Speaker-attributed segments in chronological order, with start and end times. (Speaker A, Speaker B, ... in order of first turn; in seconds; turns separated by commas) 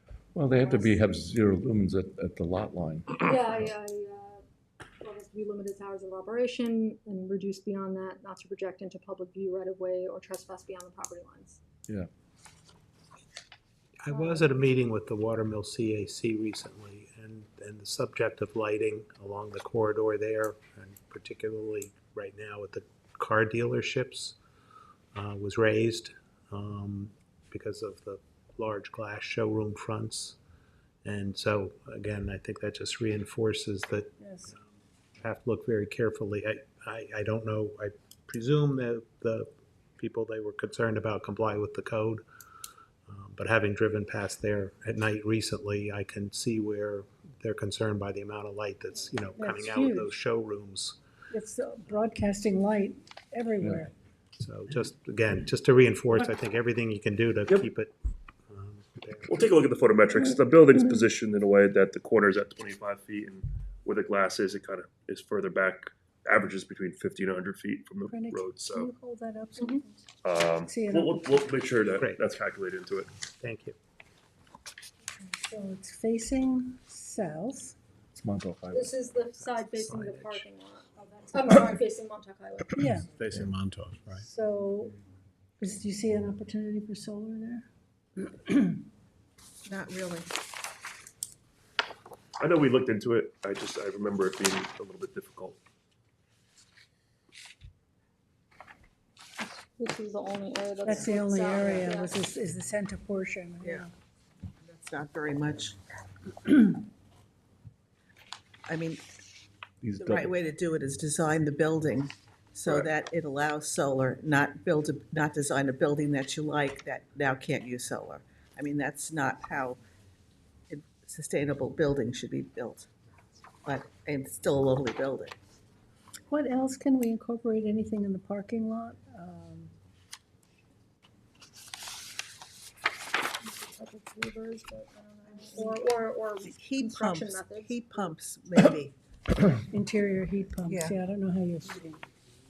Speaker A: 0.3-3.7, Speaker B: 0.5-1.0, Speaker B: 3.2-4.4, Speaker B: 5.0-11.6, Speaker C: 14.0-24.4, Speaker B: 14.1-14.6, Speaker C: 25.1-30.4, Speaker C: 31.0-34.6, Speaker D: 34.2-34.5, Speaker C: 35.2-42.2, Speaker C: 43.1-51.0, Speaker D: 49.4-50.1, Speaker D: 51.3-53.9, Speaker C: 54.4-57.9, Speaker C: 58.5-59.4, Speaker E: 59.3-68.9, Speaker D: 68.0-70.0, Speaker B: 69.6-69.8, Speaker E: 70.2-73.1, Speaker D: 70.6-71.5, Speaker C: 73.4-73.8, Speaker D: 75.2-77.7, Speaker A: 78.1-78.9, Speaker B: 78.7-82.8, Speaker C: 79.5-80.4, Speaker D: 82.7-83.1, Speaker C: 83.1-84.2, Speaker D: 84.2-85.0, Speaker D: 85.6-87.7, Speaker D: 88.2-88.8, Speaker F: 89.7-90.3, Speaker E: 92.4-95.6, Speaker B: 99.4-102.2, Speaker D: 100.8-103.9, Speaker F: 100.9-101.9, Speaker F: 103.6-103.9, Speaker F: 104.6-105.7, Speaker F: 108.7-109.0, Speaker A: 109.8-110.3, Speaker F: 110.0-119.8, Speaker E: 112.7-112.9, Speaker F: 120.7-122.9, Speaker F: 123.6-125.3, Speaker D: 126.3-129.7, Speaker B: 133.4-138.2, Speaker F: 136.4-138.9, Speaker D: 139.6-142.0, Speaker F: 140.7-141.0